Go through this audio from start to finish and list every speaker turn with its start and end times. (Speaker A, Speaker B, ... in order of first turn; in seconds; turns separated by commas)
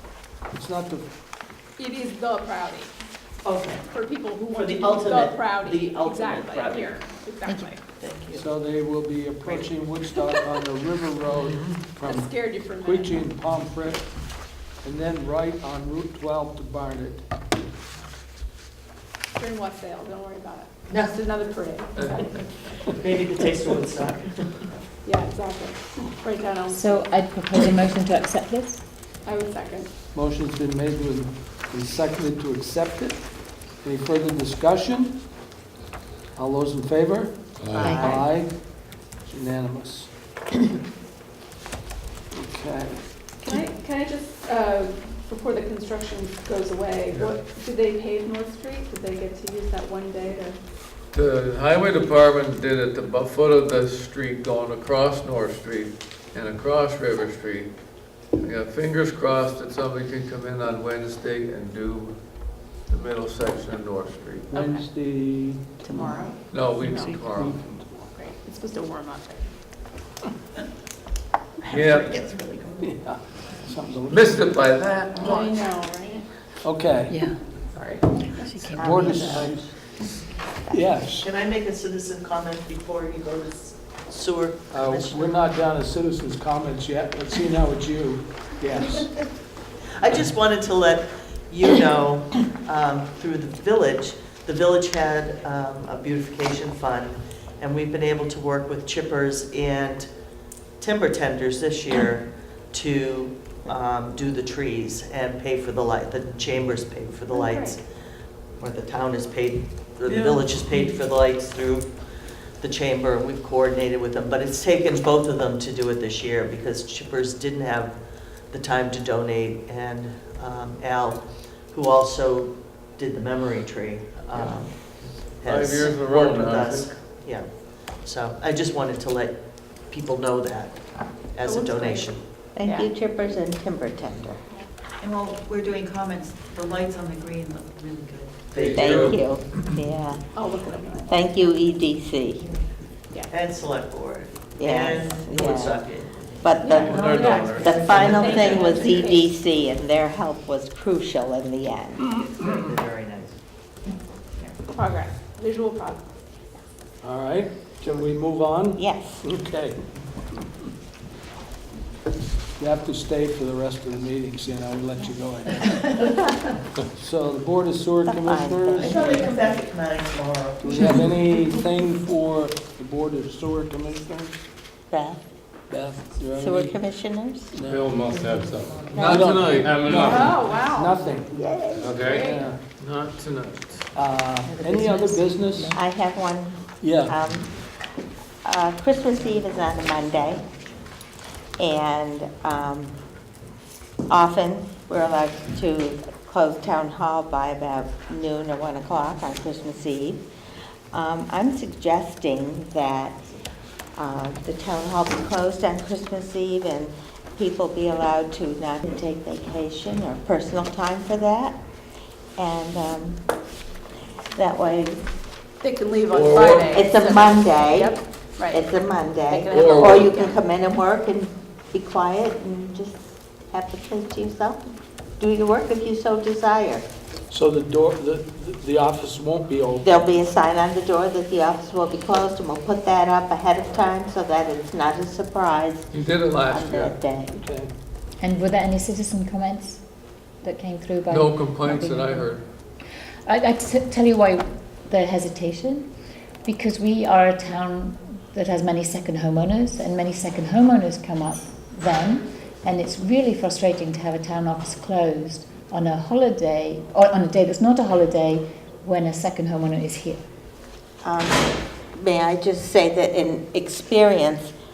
Speaker A: 0.3-1.1, Speaker B: 1.8-2.9, Speaker C: 3.4-3.8, Speaker B: 3.9-7.8, Speaker C: 4.6-6.8, Speaker A: 8.3-17.2, Speaker B: 12.0-13.3, Speaker B: 19.3-22.9, Speaker D: 21.9-22.4, Speaker E: 22.9-24.7, Speaker B: 25.0-27.2, Speaker F: 26.7-28.8, Speaker B: 29.2-29.9, Speaker A: 30.1-35.2, Speaker A: 36.3-40.2, Speaker D: 37.6-37.9, Speaker G: 37.7-38.2, Speaker A: 42.3-43.3, Speaker B: 43.4-50.6, Speaker D: 47.1-47.4, Speaker D: 51.1-57.7, Speaker D: 58.3-62.2, Speaker D: 62.8-64.5, Speaker A: 64.5-66.2, Speaker B: 64.5-64.9, Speaker B: 65.9-67.2, Speaker D: 66.5-67.6, Speaker A: 67.0-68.1, Speaker B: 68.1-69.5, Speaker D: 71.7-72.2, Speaker C: 71.7-72.9, Speaker A: 72.8-74.5, Speaker D: 74.1-75.5, Speaker B: 75.1-76.3, Speaker A: 76.6-77.4, Speaker B: 77.6-78.7, Speaker A: 78.7-79.7, Speaker G: 78.7-79.9, Speaker A: 80.7-81.3, Speaker E: 81.2-85.4, Speaker A: 84.7-89.2, Speaker E: 90.0-100.1, Speaker E: 100.8-107.8, Speaker B: 107.3-107.8, Speaker E: 108.6-112.0, Speaker C: 110.1-110.8, Speaker E: 112.6-132.3, Speaker D: 124.3-124.6, Speaker D: 125.1-126.9, Speaker B: 131.4-132.9, Speaker G: 132.6-134.4, Speaker C: 135.0-138.4, Speaker E: 138.5-139.2, Speaker D: 138.5-139.2, Speaker G: 138.7-140.4, Speaker B: 140.3-141.2, Speaker G: 141.1-142.5, Speaker E: 143.3-146.2, Speaker G: 144.6-145.8, Speaker G: 146.4-152.0, Speaker B: 146.6-149.3, Speaker D: 146.7-148.8, Speaker E: 148.3-148.8, Speaker E: 152.1-153.4, Speaker B: 154.7-156.0, Speaker A: 157.0-159.8, Speaker G: 158.8-159.2, Speaker A: 162.6-166.1, Speaker A: 166.9-169.4, Speaker G: 168.1-169.2, Speaker E: 168.8-171.1, Speaker A: 170.6-174.4, Speaker G: 174.9-175.2, Speaker A: 175.7-176.8, Speaker G: 176.3-177.5, Speaker A: 177.5-177.9, Speaker H: 177.7-178.8, Speaker D: 178.9-180.1, Speaker G: 178.9-179.2, Speaker A: 178.9-181.4, Speaker H: 179.6-180.5, Speaker B: 180.0-181.0, Speaker G: 181.3-182.1, Speaker H: 181.8-182.1, Speaker D: 181.8-182.2, Speaker B: 182.0-182.4, Speaker A: 182.1-182.6, Speaker D: 182.8-183.9, Speaker A: 183.9-185.8, Speaker F: 184.4-185.8, Speaker G: 185.7-187.6, Speaker A: 186.8-187.2, Speaker G: 188.4-190.4, Speaker G: 191.6-192.9, Speaker G: 194.1-200.2, Speaker G: 200.9-203.2, Speaker G: 203.9-211.6, Speaker G: 212.3-213.2, Speaker G: 214.3-215.1, Speaker B: 215.6-218.7, Speaker D: 216.1-216.8, Speaker G: 216.7-217.9, Speaker G: 218.5-226.8, Speaker B: 219.3-220.4, Speaker D: 219.5-220.1, Speaker A: 227.3-230.1, Speaker G: 229.8-237.3, Speaker D: 235.9-236.9, Speaker A: 237.3-237.7, Speaker F: 238.2-239.8, Speaker F: 240.4-242.2, Speaker D: 241.1-242.4, Speaker F: 243.2-245.8, Speaker F: 246.4-260.2, Speaker G: 261.0-264.5